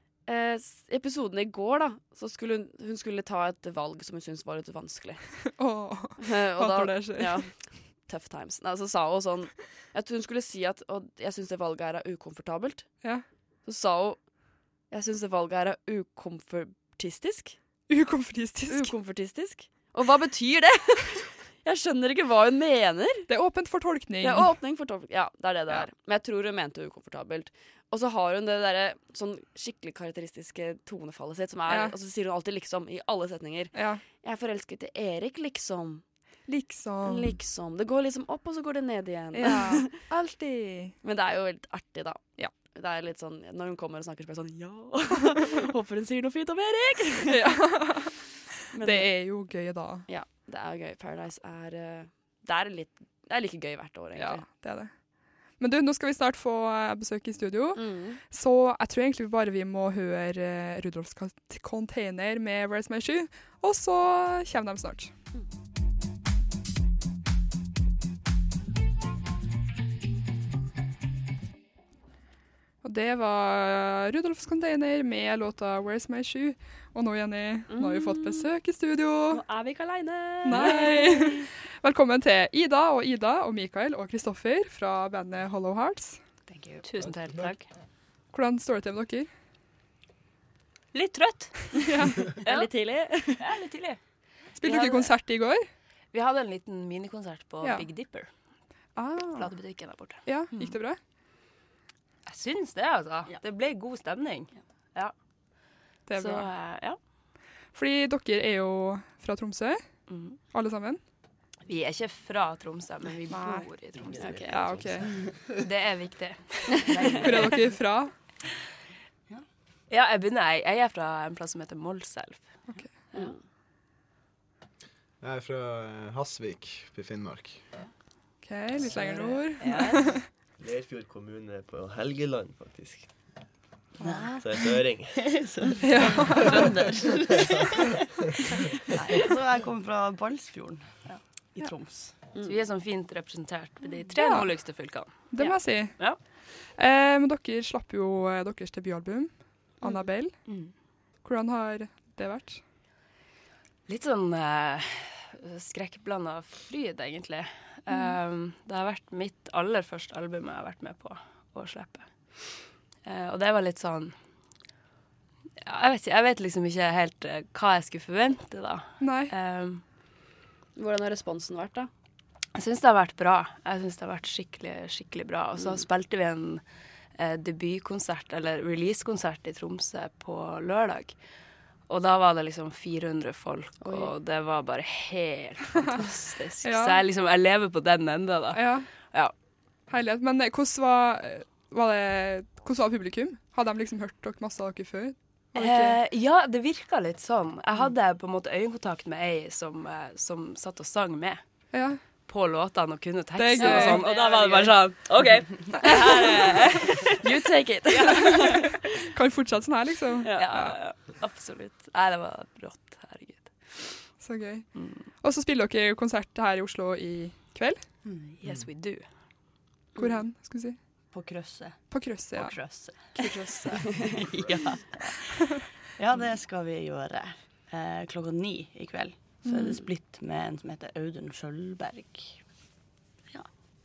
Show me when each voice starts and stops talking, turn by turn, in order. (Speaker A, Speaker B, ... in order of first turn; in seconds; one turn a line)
Speaker A: 0.3-5.2
Speaker B: 5.6-7.6
Speaker A: 6.2-14.3
Speaker A: 14.9-17.6
Speaker B: 17.9-18.9
Speaker A: 18.7-23.3
Speaker B: 23.3-24.6
Speaker A: 24.2-36.0
Speaker B: 31.7-31.9
Speaker B: 33.7-34.0
Speaker B: 36.5-37.3
Speaker A: 37.0-40.0
Speaker B: 39.4-41.0
Speaker A: 41.0-47.5
Speaker B: 47.3-48.2
Speaker A: 48.7-49.1
Speaker B: 48.8-50.1
Speaker A: 50.1-54.5
Speaker B: 54.2-65.1
Speaker A: 57.8-58.2
Speaker B: 72.8-79.4
Speaker A: 77.7-78.5
Speaker A: 79.3-81.4
Speaker B: 80.5-86.2
Speaker C: 86.5-87.7
Speaker B: 88.3-89.3
Speaker C: 90.9-92.7
Speaker B: 91.8-92.2
Speaker A: 92.4-93.4
Speaker C: 93.4-94.0
Speaker C: 94.5-95.2
Speaker B: 94.6-95.7
Speaker C: 96.1-98.3
Speaker B: 97.6-97.9
Speaker B: 99.0-99.5
Speaker C: 99.3-100.8
Speaker B: 100.2-101.0
Speaker C: 102.2-105.1
Speaker B: 106.1-106.5
Speaker C: 106.2-107.0
Speaker B: 107.7-111.0
Speaker C: 110.1-110.4
Speaker C: 111.7-114.4
Speaker B: 113.3-113.8
Speaker A: 114.2-114.7
Speaker D: 114.2-115.1
Speaker B: 114.5-115.1
Speaker C: 115.6-117.7
Speaker B: 117.2-118.1
Speaker C: 119.9-122.5
Speaker A: 123.1-123.4
Speaker E: 125.2-127.7
Speaker B: 128.4-130.2
Speaker C: 128.9-130.0
Speaker A: 129.2-130.0
Speaker D: 130.6-133.3
Speaker F: 134.0-137.8
Speaker D: 134.2-135.4
Speaker B: 135.8-136.8
Speaker F: 139.1-142.1
Speaker C: 142.4-146.2
Speaker B: 144.2-150.6
Speaker C: 150.5-150.7
Speaker B: 151.2-152.6
Speaker C: 153.9-162.1
Speaker C: 163.0-164.2
Speaker C: 165.6-169.8
Speaker B: 169.0-169.3
Speaker A: 170.8-171.9
Speaker C: 172.6-176.6
Speaker C: 177.2-181.2
Speaker C: 181.9-189.3
Speaker A: 183.8-184.1
Speaker B: 186.6-187.0
Speaker B: 188.5-188.9
Speaker B: 189.9-196.0
Speaker C: 195.6-207.2
Speaker B: 201.7-202.0
Speaker B: 203.3-204.0
Speaker A: 203.6-205.0
Speaker A: 205.9-206.3
Speaker A: 207.1-208.7
Speaker C: 208.1-208.7
Speaker B: 209.1-210.8
Speaker C: 210.4-214.1
Speaker B: 214.2-217.9
Speaker C: 214.8-215.1
Speaker F: 218.0-218.3
Speaker C: 218.4-219.1
Speaker B: 220.0-220.8
Speaker F: 221.1-223.1
Speaker B: 221.9-224.1
Speaker F: 224.2-225.4
Speaker F: 226.0-232.5
Speaker B: 229.4-229.8